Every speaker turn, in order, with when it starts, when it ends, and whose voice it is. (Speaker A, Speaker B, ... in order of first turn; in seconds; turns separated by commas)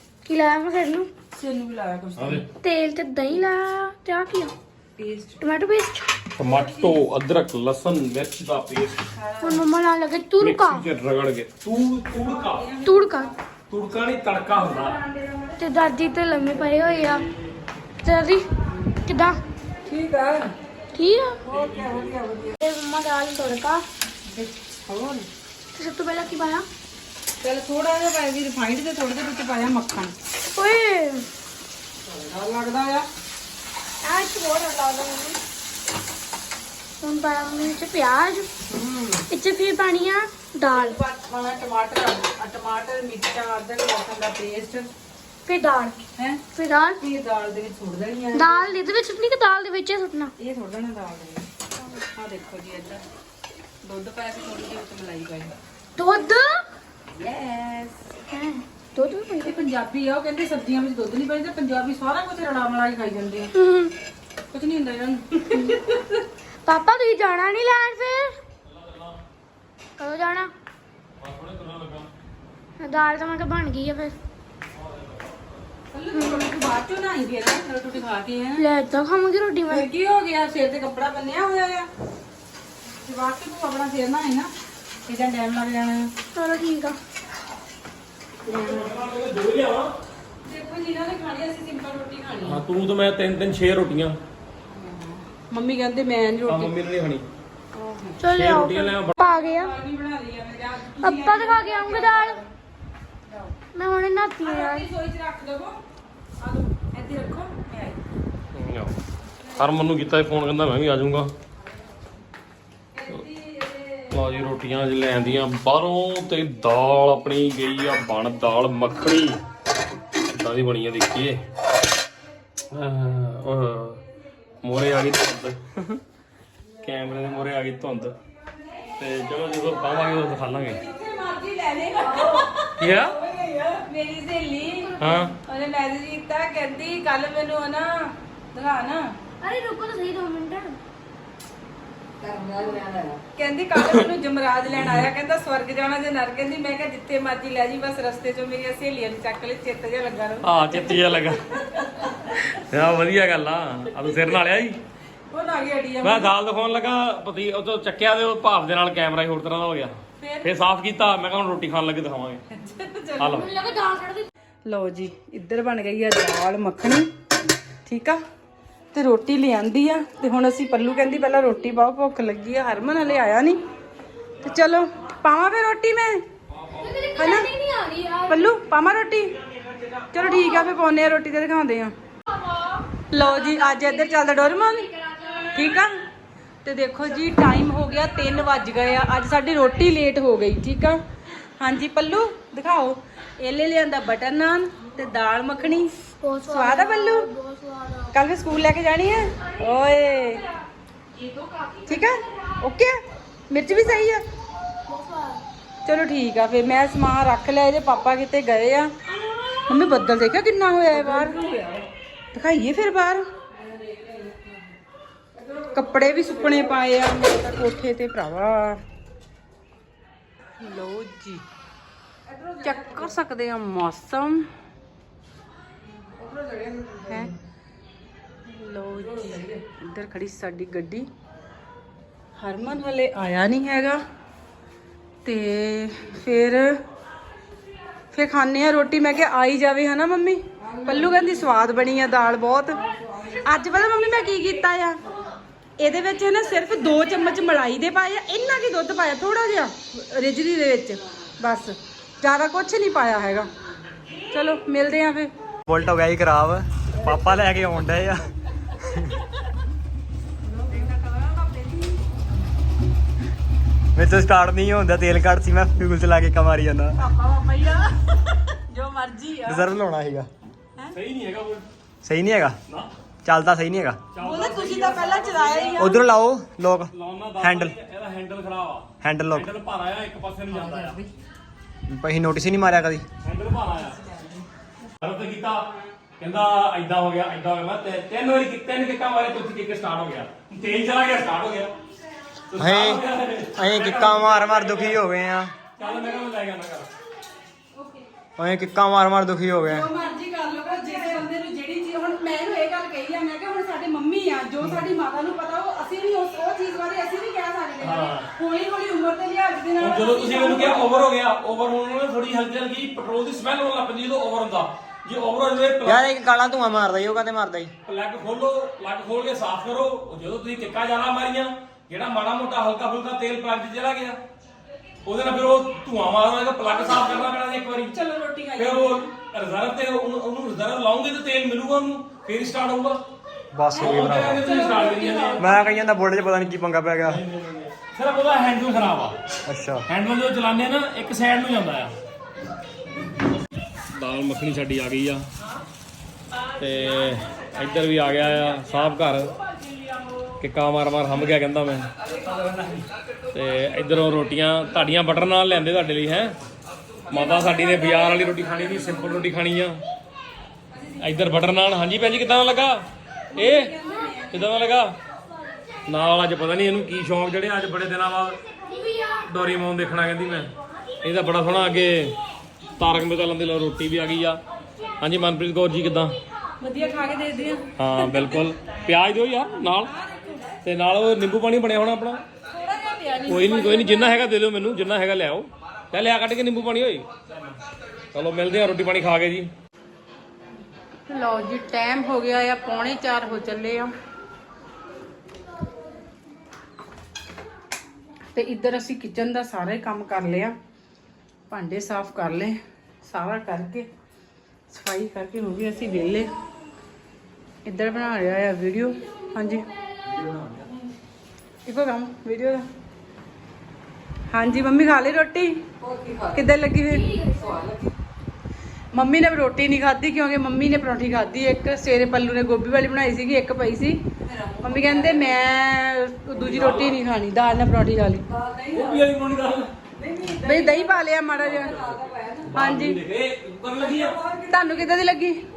Speaker A: 0.2-1.1, Speaker B: 1.3-2.4, Speaker C: 2.2-2.4, Speaker A: 2.6-4.5, Speaker B: 5.0-5.4, Speaker A: 5.4-6.2, Speaker C: 6.4-9.1, Speaker B: 6.4-7.0, Speaker B: 9.2-9.6, Speaker A: 9.4-10.9, Speaker C: 10.4-12.7, Speaker B: 12.3-13.3, Speaker A: 12.8-13.3, Speaker C: 13.7-15.0, Speaker A: 15.6-17.3, Speaker A: 18.0-18.5, Speaker A: 19.1-19.4, Speaker B: 19.9-20.5, Speaker A: 20.9-21.4, Speaker B: 21.4-22.6, Speaker A: 22.6-23.9, Speaker B: 24.3-25.3, Speaker A: 25.8-26.7, Speaker B: 27.4-30.1, Speaker A: 30.5-31.3, Speaker B: 32.1-33.1, Speaker A: 34.0-35.4, Speaker A: 37.0-38.5, Speaker B: 38.7-39.2, Speaker A: 39.3-41.0, Speaker B: 40.7-44.9, Speaker A: 45.5-46.0, Speaker A: 46.5-47.0, Speaker B: 47.0-48.7, Speaker A: 48.3-50.3, Speaker B: 50.4-51.5, Speaker B: 52.2-53.0, Speaker B: 53.8-55.5, Speaker A: 56.0-56.6, Speaker B: 57.2-58.1, Speaker A: 58.3-59.6, Speaker B: 59.4-63.5, Speaker A: 63.5-63.9, Speaker B: 64.5-66.1, Speaker A: 65.5-65.9, Speaker A: 66.7-68.4, Speaker C: 68.7-69.2, Speaker A: 70.0-70.5, Speaker C: 71.2-72.1, Speaker A: 72.8-74.2, Speaker C: 74.7-75.6, Speaker B: 75.9-78.6, Speaker A: 76.1-76.5, Speaker A: 78.6-79.9, Speaker B: 79.7-81.9, Speaker B: 83.0-84.5, Speaker B: 85.1-86.1, Speaker A: 86.3-87.0, Speaker C: 88.5-89.9, Speaker B: 90.4-92.6, Speaker C: 92.4-94.2, Speaker B: 94.7-96.7, Speaker C: 96.5-97.2, Speaker B: 97.7-98.2, Speaker A: 98.2-99.8, Speaker C: 98.3-99.2, Speaker B: 99.2-102.5, Speaker A: 101.0-102.4, Speaker B: 103.3-103.5, Speaker A: 103.7-104.9, Speaker B: 104.4-105.8, Speaker B: 106.4-108.0, Speaker C: 108.5-109.0, Speaker C: 109.5-111.3, Speaker B: 113.0-114.2, Speaker C: 114.1-119.4, Speaker C: 120.3-121.4, Speaker C: 122.7-124.0, Speaker C: 124.6-126.0, Speaker C: 126.8-128.1, Speaker C: 129.0-130.8, Speaker B: 130.7-139.1, Speaker C: 132.8-133.2, Speaker C: 135.0-135.3, Speaker A: 139.4-140.8, Speaker A: 142.6-142.9, Speaker B: 143.3-151.0, Speaker C: 150.4-151.4, Speaker C: 152.3-154.8, Speaker B: 155.3-156.3, Speaker C: 156.0-162.4, Speaker B: 160.2-160.6, Speaker B: 162.5-163.5, Speaker C: 163.2-163.5, Speaker A: 163.4-164.3, Speaker B: 164.7-167.1, Speaker B: 167.9-168.2, Speaker B: 168.9-173.6, Speaker B: 174.4-176.2, Speaker A: 176.7-178.4, Speaker B: 177.2-177.5, Speaker B: 178.3-179.3, Speaker B: 180.1-181.9, Speaker B: 183.1-184.9, Speaker B: 185.5-186.0, Speaker B: 186.6-191.0, Speaker B: 191.6-195.9, Speaker A: 196.2-198.2, Speaker B: 196.4-197.3, Speaker B: 198.1-200.4, Speaker A: 199.8-200.4, Speaker A: 201.3-202.2, Speaker B: 201.9-203.0, Speaker B: 203.5-204.2, Speaker A: 204.9-205.4, Speaker B: 205.8-208.9, Speaker B: 209.7-211.4, Speaker B: 212.3-213.2, Speaker B: 215.7-218.8, Speaker B: 220.6-221.4, Speaker B: 222.6-224.5, Speaker B: 227.1-227.3, Speaker B: 228.4-231.1, Speaker B: 232.4-234.0, Speaker B: 235.2-236.8, Speaker B: 238.1-245.0, Speaker B: 245.8-253.5, Speaker B: 254.3-255.3, Speaker D: 255.7-258.2, Speaker D: 258.9-259.2, Speaker B: 260.5-261.9, Speaker D: 263.9-267.0, Speaker B: 267.0-268.0, Speaker B: 268.7-269.7, Speaker D: 269.5-270.3, Speaker C: 270.9-271.7, Speaker D: 272.0-272.6, Speaker D: 273.2-274.0, Speaker C: 274.1-275.9, Speaker B: 274.2-276.0, Speaker D: 275.8-277.8, Speaker C: 276.9-281.0, Speaker D: 279.0-279.5, Speaker B: 280.5-281.1, Speaker D: 281.9-283.0, Speaker C: 283.2-284.0, Speaker B: 283.8-284.4, Speaker C: 285.0-285.7, Speaker C: 286.2-291.7, Speaker C: 292.5-295.0, Speaker D: 292.6-293.0, Speaker D: 293.6-295.5, Speaker C: 295.8-296.9, Speaker B: 295.8-296.2, Speaker D: 298.4-299.9, Speaker B: 299.6-310.9, Speaker C: 307.8-308.3, Speaker C: 309.8-316.1, Speaker D: 315.9-317.7, Speaker C: 317.9-324.2, Speaker C: 325.1-327.9, Speaker B: 326.6-329.1, Speaker C: 328.6-333.0, Speaker D: 333.5-334.5, Speaker B: 333.7-335.8, Speaker C: 333.8-335.5, Speaker D: 335.4-337.2, Speaker C: 337.0-339.2, Speaker D: 339.5-339.9, Speaker C: 339.9-341.9, Speaker C: 343.9-345.2, Speaker C: 346.6-349.3, Speaker C: 350.4-351.9, Speaker C: 353.3-356.4, Speaker C: 357.1-359.8, Speaker B: 360.7-361.3, Speaker C: 361.0-362.8, Speaker B: 363.3-364.6, Speaker C: 363.3-363.7, Speaker C: 364.3-364.9, Speaker C: 365.9-370.5, Speaker C: 371.0-372.2, Speaker C: 372.8-374.4, Speaker C: 375.0-376.1, Speaker B: 376.6-378.3, Speaker C: 377.8-379.9, Speaker B: 379.8-380.6, Speaker C: 380.6-382.2, Speaker B: 382.5-384.3, Speaker C: 383.2-387.1, Speaker C: 388.1-389.5, Speaker B: 391.1-393.9, Speaker B: 398.4-400.6, Speaker B: 401.5-403.9, Speaker B: 404.7-406.3, Speaker B: 407.6-409.7, Speaker B: 411.6-412.7, Speaker B: 414.3-415.6, Speaker B: 416.3-417.1, Speaker A: 417.0-417.6, Speaker B: 418.9-424.0, Speaker B: 424.6-428.3, Speaker C: 426.5-426.9, Speaker C: 428.7-429.7, Speaker B: 430.4-431.8, Speaker C: 431.4-434.2, Speaker B: 432.5-433.0, Speaker B: 434.4-435.4